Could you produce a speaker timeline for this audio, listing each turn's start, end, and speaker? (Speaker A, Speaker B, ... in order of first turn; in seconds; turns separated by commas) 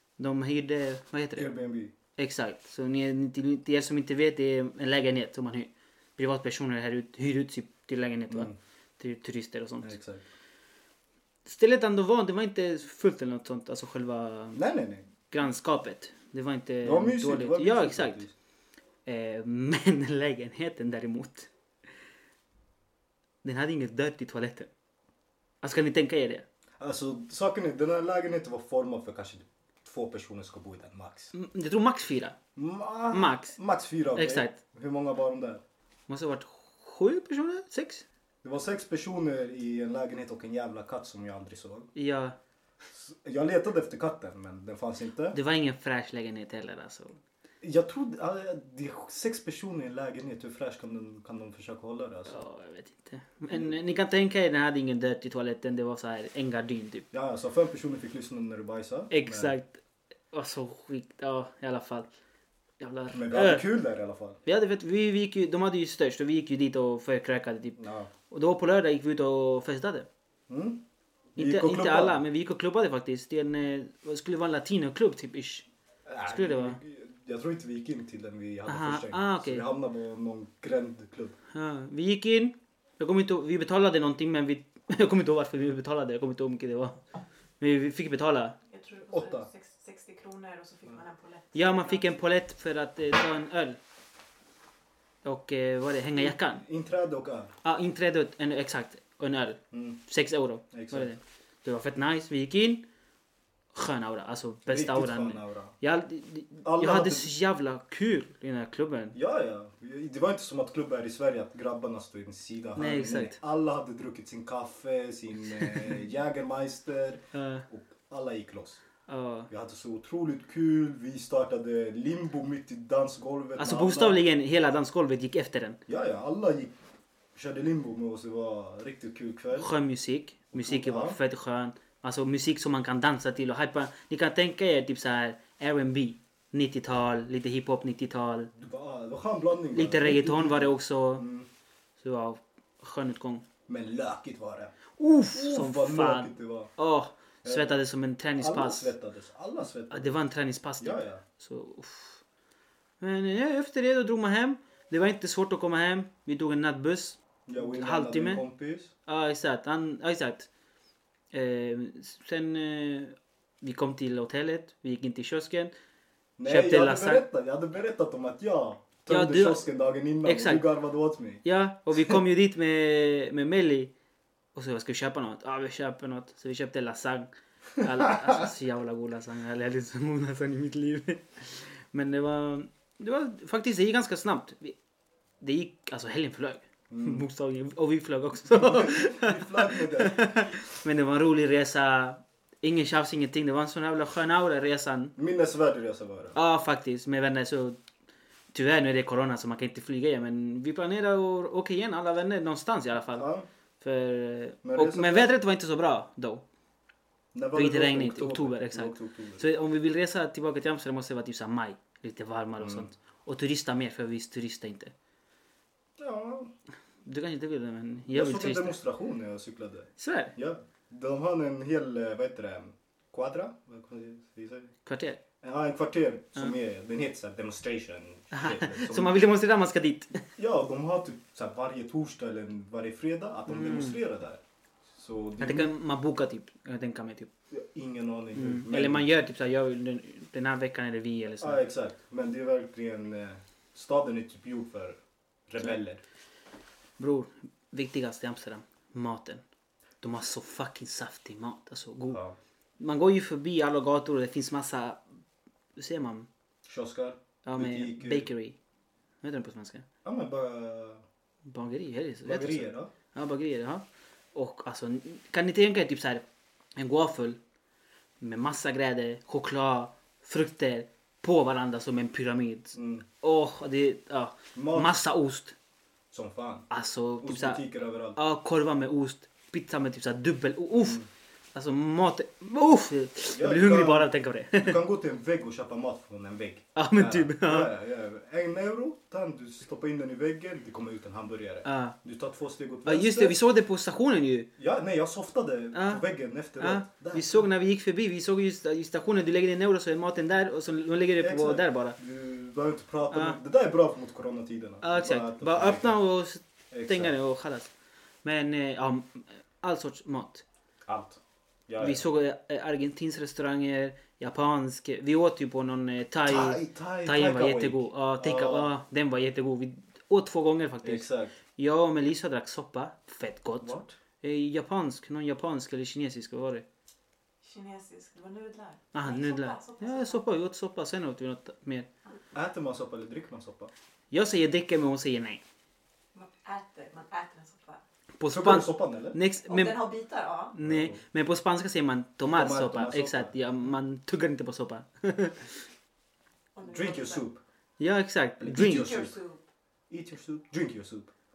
Speaker A: 0.2-1.5, Speaker B: 1.4-1.9, Speaker A: 2.2-9.9, Speaker B: 8.3-8.6, Speaker B: 9.8-10.2, Speaker A: 11.5-14.6, Speaker B: 14.5-15.1, Speaker A: 15.3-18.2, Speaker B: 16.8-18.3, Speaker A: 19.1-21.5, Speaker A: 23.4-24.7, Speaker A: 25.6-26.5, Speaker B: 26.8-31.3, Speaker A: 31.3-32.4, Speaker B: 32.6-35.6, Speaker A: 33.1-33.6, Speaker A: 34.1-34.6, Speaker A: 36.1-38.1, Speaker B: 38.4-41.9, Speaker A: 42.0-42.4, Speaker B: 42.9-45.4, Speaker A: 45.3-47.2, Speaker B: 47.6-52.4, Speaker A: 52.3-57.1, Speaker B: 57.1-59.5, Speaker A: 59.1-59.8, Speaker A: 60.3-62.1, Speaker A: 62.8-63.6, Speaker B: 63.1-64.4, Speaker A: 64.5-67.8, Speaker B: 67.8-68.1, Speaker A: 68.3-70.1, Speaker B: 70.5-70.8, Speaker B: 71.3-72.2, Speaker A: 71.4-75.7, Speaker B: 76.1-81.4, Speaker A: 76.3-76.8, Speaker A: 78.7-79.7, Speaker A: 81.5-87.0, Speaker A: 87.6-88.6, Speaker C: 88.7-92.1, Speaker B: 89.1-89.5, Speaker A: 91.5-93.8, Speaker A: 95.2-96.6, Speaker B: 96.2-97.5, Speaker A: 97.6-102.9, Speaker B: 99.7-100.0, Speaker B: 100.7-101.1, Speaker A: 103.7-109.2, Speaker B: 104.7-105.7, Speaker B: 106.6-107.3, Speaker B: 109.1-118.8, Speaker A: 112.8-113.4, Speaker A: 117.3-117.7, Speaker A: 119.1-119.5, Speaker B: 119.5-124.2, Speaker A: 123.6-125.8, Speaker B: 125.9-126.7, Speaker B: 127.3-129.7, Speaker A: 129.5-138.5, Speaker B: 130.5-131.2, Speaker B: 138.6-141.5, Speaker A: 139.7-141.2, Speaker A: 142.0-143.4, Speaker B: 143.7-144.7, Speaker A: 145.0-148.9, Speaker B: 145.3-146.7, Speaker B: 147.4-147.8, Speaker B: 148.4-150.2, Speaker A: 149.9-152.2, Speaker B: 150.8-151.2, Speaker A: 153.0-158.4, Speaker B: 157.5-158.9, Speaker A: 159.1-160.5, Speaker A: 161.3-165.7, Speaker B: 166.4-172.2, Speaker A: 166.4-167.2, Speaker A: 169.1-169.7, Speaker A: 170.2-170.7, Speaker A: 171.4-173.9, Speaker A: 174.6-184.8, Speaker B: 177.8-178.4, Speaker A: 185.4-195.2, Speaker B: 186.9-187.2, Speaker B: 188.5-190.3, Speaker B: 195.2-196.4, Speaker A: 196.3-197.8, Speaker A: 198.5-203.3, Speaker B: 203.1-203.5, Speaker A: 203.8-206.4, Speaker B: 204.6-205.3, Speaker B: 207.3-209.4, Speaker A: 207.6-214.9, Speaker B: 212.6-212.9, Speaker B: 216.0-216.5, Speaker A: 217.1-218.8, Speaker B: 218.1-224.7, Speaker A: 220.0-220.3, Speaker A: 224.9-225.2, Speaker B: 225.4-229.2, Speaker A: 228.3-230.2, Speaker B: 230.4-234.4, Speaker A: 233.5-234.0, Speaker B: 234.9-235.7, Speaker A: 235.4-237.3, Speaker B: 237.5-239.1, Speaker A: 238.3-241.6, Speaker B: 241.4-246.0, Speaker A: 247.0-249.4, Speaker A: 250.0-252.2, Speaker B: 252.1-252.4, Speaker A: 252.8-255.0, Speaker A: 255.8-256.3, Speaker B: 256.6-258.3, Speaker A: 257.4-258.6, Speaker A: 259.2-259.9, Speaker B: 260.1-261.0, Speaker A: 261.5-266.2, Speaker B: 262.2-262.9, Speaker A: 266.8-267.4, Speaker A: 268.2-275.6, Speaker B: 272.8-273.1, Speaker B: 274.6-275.0, Speaker B: 276.1-276.7, Speaker A: 276.7-277.6, Speaker B: 277.2-278.2, Speaker A: 278.1-281.0, Speaker B: 280.8-281.1, Speaker A: 281.5-284.8, Speaker B: 283.3-293.4, Speaker A: 286.8-287.7, Speaker A: 291.6-292.0, Speaker A: 292.9-294.5, Speaker B: 294.6-297.4, Speaker A: 295.7-296.0, Speaker A: 296.6-302.0, Speaker B: 301.2-306.0, Speaker A: 303.1-303.4, Speaker A: 304.8-307.7, Speaker B: 306.7-307.1, Speaker A: 308.2-310.4, Speaker B: 310.9-312.0, Speaker A: 311.8-326.7, Speaker B: 316.3-318.7, Speaker B: 320.8-321.3, Speaker B: 323.6-324.0, Speaker C: 327.4-330.2, Speaker A: 328.9-331.9, Speaker B: 332.3-333.7, Speaker A: 334.1-335.4, Speaker C: 336.1-337.8, Speaker A: 338.2-339.9, Speaker B: 338.3-339.2, Speaker C: 339.4-340.5, Speaker A: 340.5-345.7, Speaker B: 340.6-341.0, Speaker B: 342.3-343.3, Speaker C: 346.6-347.2, Speaker B: 346.6-347.4, Speaker A: 347.8-348.9, Speaker B: 348.4-349.2, Speaker C: 348.5-349.4, Speaker B: 349.9-351.1